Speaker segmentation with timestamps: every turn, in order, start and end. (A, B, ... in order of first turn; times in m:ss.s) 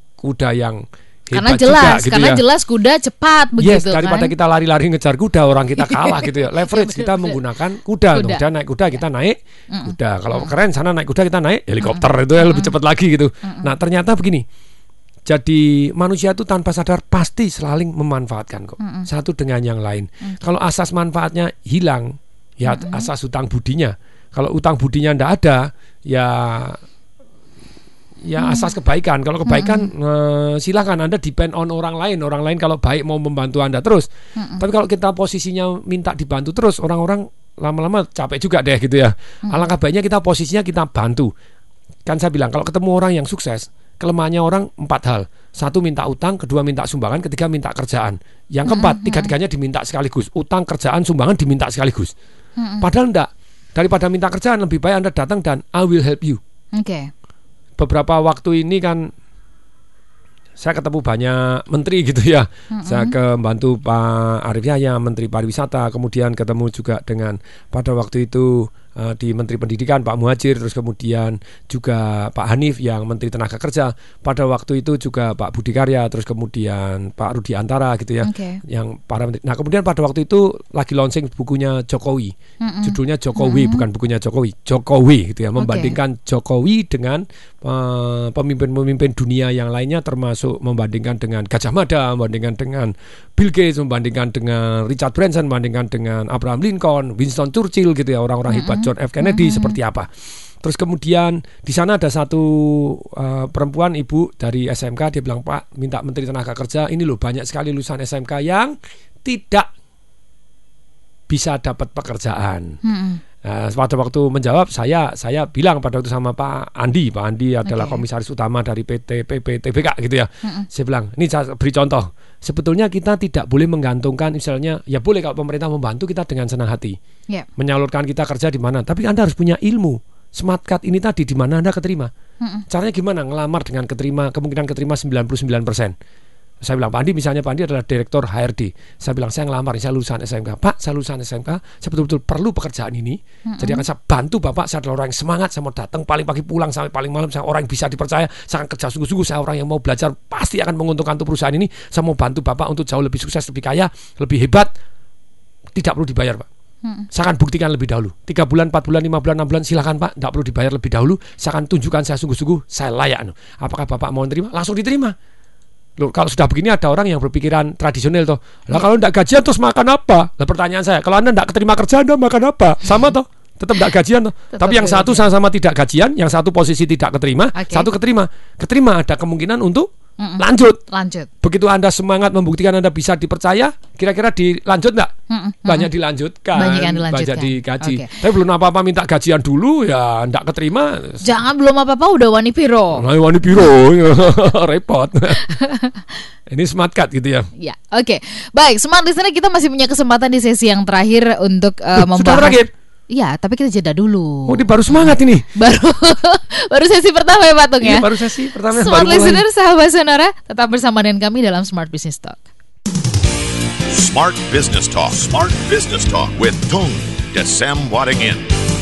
0:00.2-0:02.4 A
0:01.3-0:04.3 B
0:03.6-0:14.4 A
0:05.8-0:07.4 B
0:08.1-0:08.4 B
0:09.7-0:10.5 B
0:11.8-0:12.7 B
0:13.4-0:13.7 B
0:15.2-0:26.8 A
0:18.8-0:19.1 B
0:22.6-0:23.1 B
0:28.2-0:34.1 A
0:28.4-0:28.7 B
0:29.4-0:29.9 B
0:34.4-0:34.6 B
0:34.6-0:41.3 A
0:42.0-0:52.1 A
0:48.7-0:49.3 B
0:52.6-0:52.9 B
0:52.8-0:56.4 A
0:56.7-0:57.1 B
0:57.8-0:59.1 A
1:00.6-1:22.3 A
1:02.7-1:03.1 B
1:18.2-1:18.6 B
1:22.6-1:23.8 B
1:22.8-1:40.1 A
1:25.6-1:26.0 B
1:38.5-1:39.8 B
1:40.6-1:49.7 A
1:51.3-1:52.7 A
1:52.8-1:53.2 B
1:53.4-2:07.0 A
1:57.6-1:58.0 B
2:07.6-2:12.1 A
2:12.7-2:15.9 A
2:16.6-2:34.7 A
2:23.5-2:23.8 B
2:35.7-2:36.5 A
2:37.1-2:45.1 A
2:46.0-3:00.8 A
2:54.5-2:55.3 B
2:57.5-2:57.9 B
3:00.2-3:01.3 B
3:01.4-3:05.1 A
3:05.3-3:05.9 B
3:05.6-3:11.3 A
3:06.5-3:08.1 B
3:11.2-3:13.0 B
3:13.0-3:15.5 A
3:15.6-3:16.0 B
3:16.5-3:17.5 A
3:17.6-3:32.4 B
3:21.9-3:22.7 A
3:24.5-3:25.4 A
3:27.8-3:29.4 A
3:33.9-3:38.5 C